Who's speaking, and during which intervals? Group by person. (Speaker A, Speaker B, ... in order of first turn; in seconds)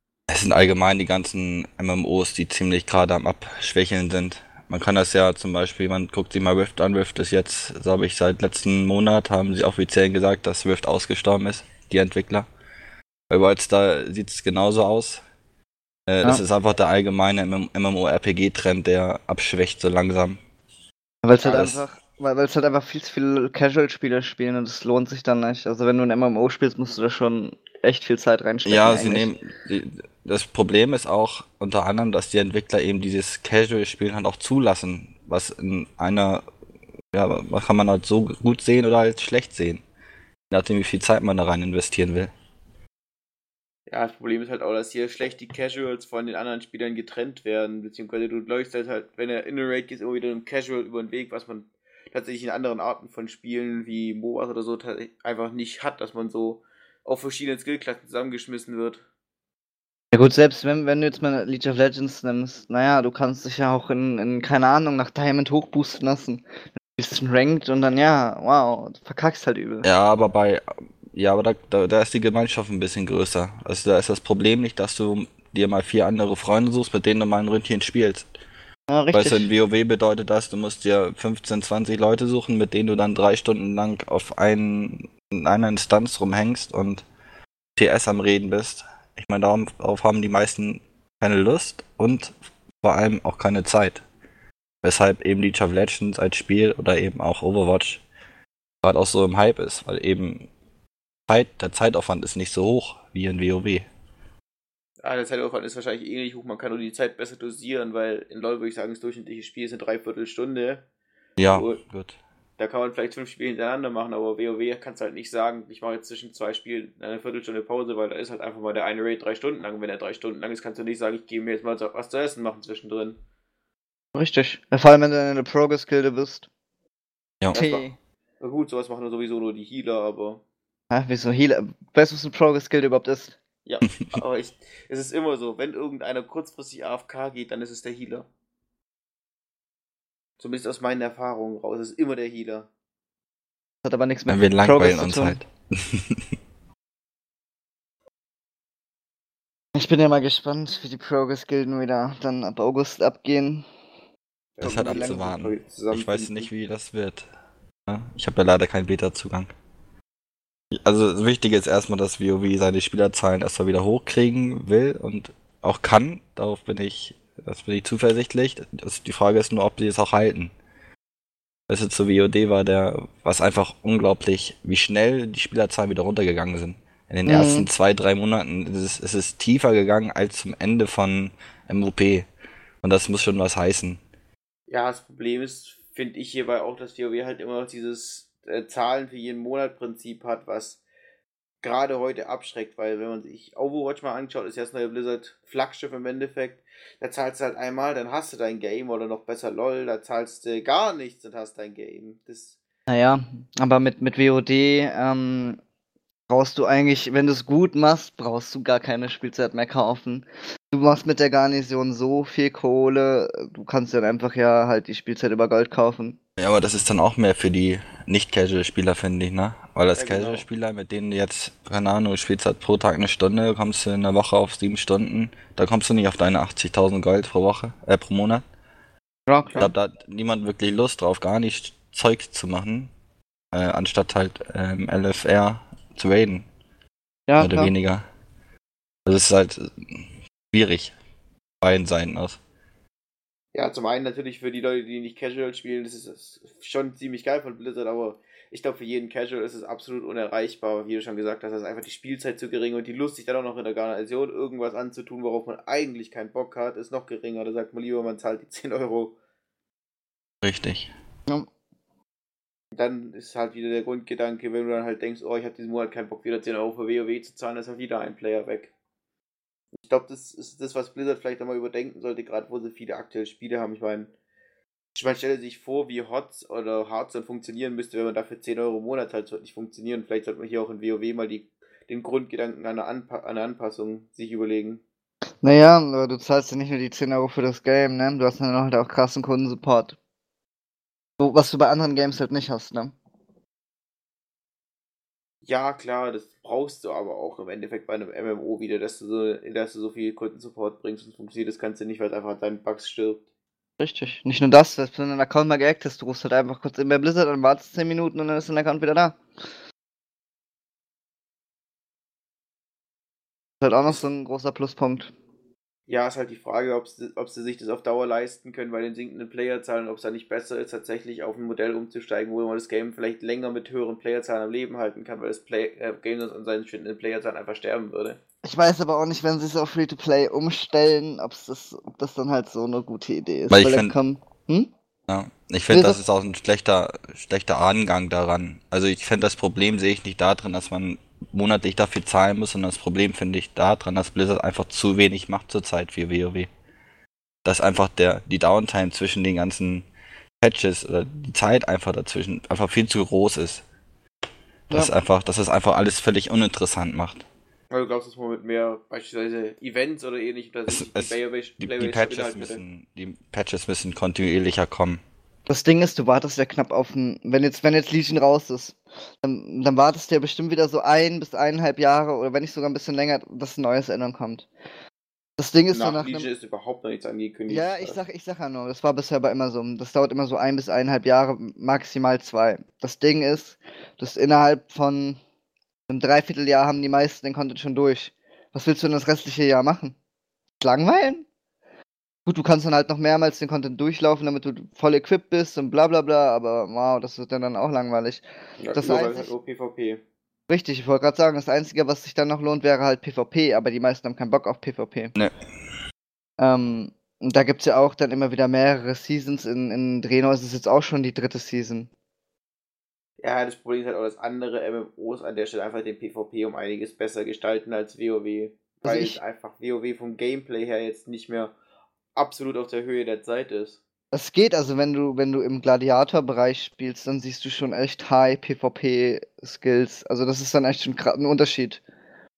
Speaker A: 0.3-12.5, 13.3-15.2, 16.1-20.4, 21.4-21.8, 28.6-36.4, 37.1-39.8, 40.5-42.3, 69.8-78.3, 79.1-87.0, 87.8-94.0, 94.8-98.0, 98.8-100.5, 101.3-103.8, 111.4-112.2, 144.3-146.2, 154.6-157.2, 157.9-159.5, 160.8-170.5, 171.7-182.3, 182.8-184.0, 216.4-228.4, 229.6-232.9, 233.5-236.4, 237.4-238.0, 239.1-240.9, 241.6-242.4, 260.4-260.9, 333.5-333.9, 335.1-346.5, 347.4-349.9, 350.4-353.6, 354.7-357.2, 360.7-365.0
Speaker B: 21.2-29.3, 60.1-66.4, 67.0-69.9, 78.9-79.5, 124.1-126.5, 127.5-128.0, 130.9-133.4, 143.8-145.4, 149.8-153.7, 154.6-155.2, 177.2-177.7, 202.9-205.6, 206.3-216.2, 229.3-229.7, 237.3-237.7, 285.4-290.0, 291.2-292.9, 303.8-309.2, 313.6-315.1, 328.4-334.7, 335.7-336.0, 365.5-374.5, 375.4-376.2, 377.5-385.2, 385.9-389.9, 390.6-391.2, 392.2-399.3, 400.5-405.1, 406.4-411.9, 418.8-419.2, 424.1-431.8
Speaker C: 43.9-59.0, 105.0-110.8, 111.5-111.8, 112.6-123.2, 127.5-127.8, 128.4-130.4, 133.6-138.3, 140.4-142.7, 154.6-156.5, 184.7-190.8, 191.6-202.6, 219.9-220.5, 243.5-259.1, 262.7-268.7, 269.8-274.1, 274.9-284.8, 295.5-303.2, 315.9-328.2, 357.7-362.6, 375.7-378.0, 398.6-400.0, 413.2-421.5, 422.1-423.8